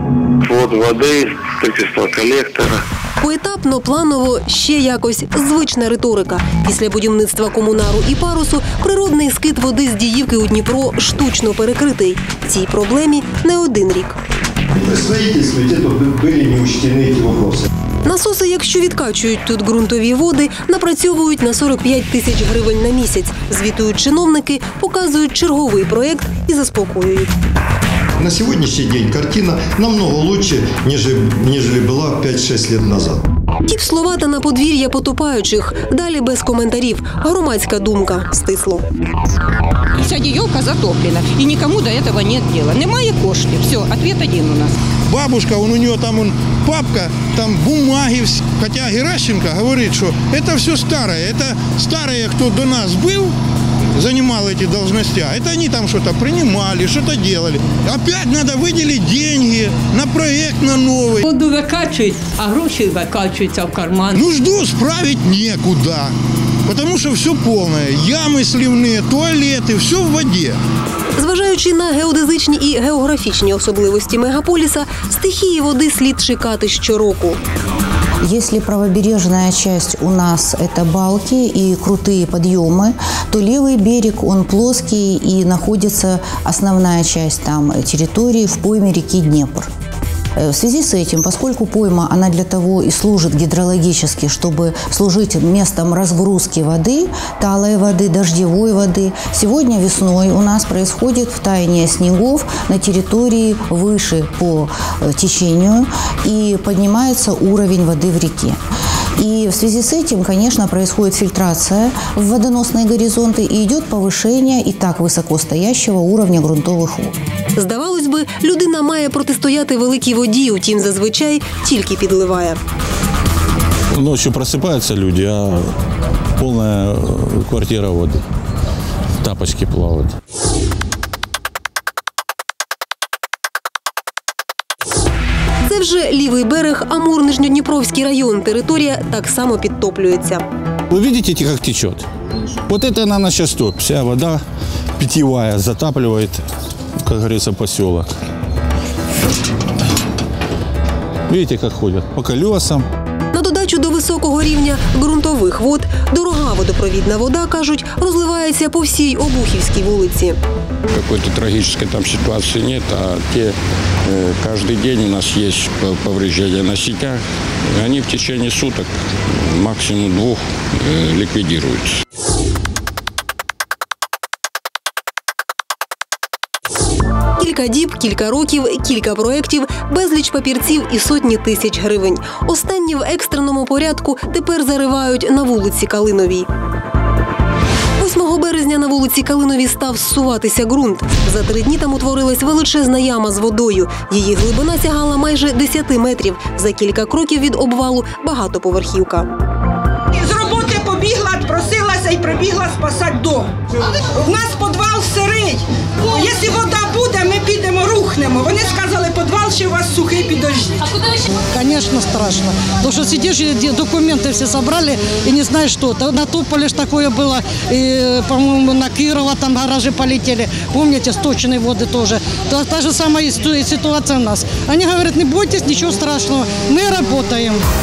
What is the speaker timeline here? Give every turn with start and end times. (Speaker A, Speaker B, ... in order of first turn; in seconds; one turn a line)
Speaker A: 0.4-2.8
Speaker B: 3.2-14.2
Speaker C: 14.7-17.6
Speaker B: 18.0-27.3
Speaker C: 28.2-33.2
Speaker B: 33.7-38.9
Speaker D: 40.0-44.8
Speaker E: 45.1-53.3
Speaker E: 54.0-61.2
Speaker F: 61.2-64.2
Speaker E: 64.2-66.1
Speaker E: 66.7-70.6
Speaker B: 71.2-77.4
Speaker G: 78.2-89.7
Speaker G: 90.3-108.6
Speaker G: 109.2-117.1
Speaker B: 117.5-122.6
Speaker H: 123.9-125.7
Speaker H: 126.4-128.2
Speaker H: 129.2-130.1
Speaker B: 135.7-140.4
Speaker H: 140.9-142.1
Speaker H: 142.7-144.4
Speaker H: 145.0-146.4
Speaker H: 147.0-148.2
Speaker H: 151.3-152.8
Speaker B: 153.3-160.4
Speaker I: 160.9-168.9
Speaker I: 169.4-172.0
Speaker B: 177.4-186.5
Speaker B: 188.0-199.3
Speaker J: 200.2-203.5
Speaker J: 204.2-210.8
Speaker K: 211.5-227.6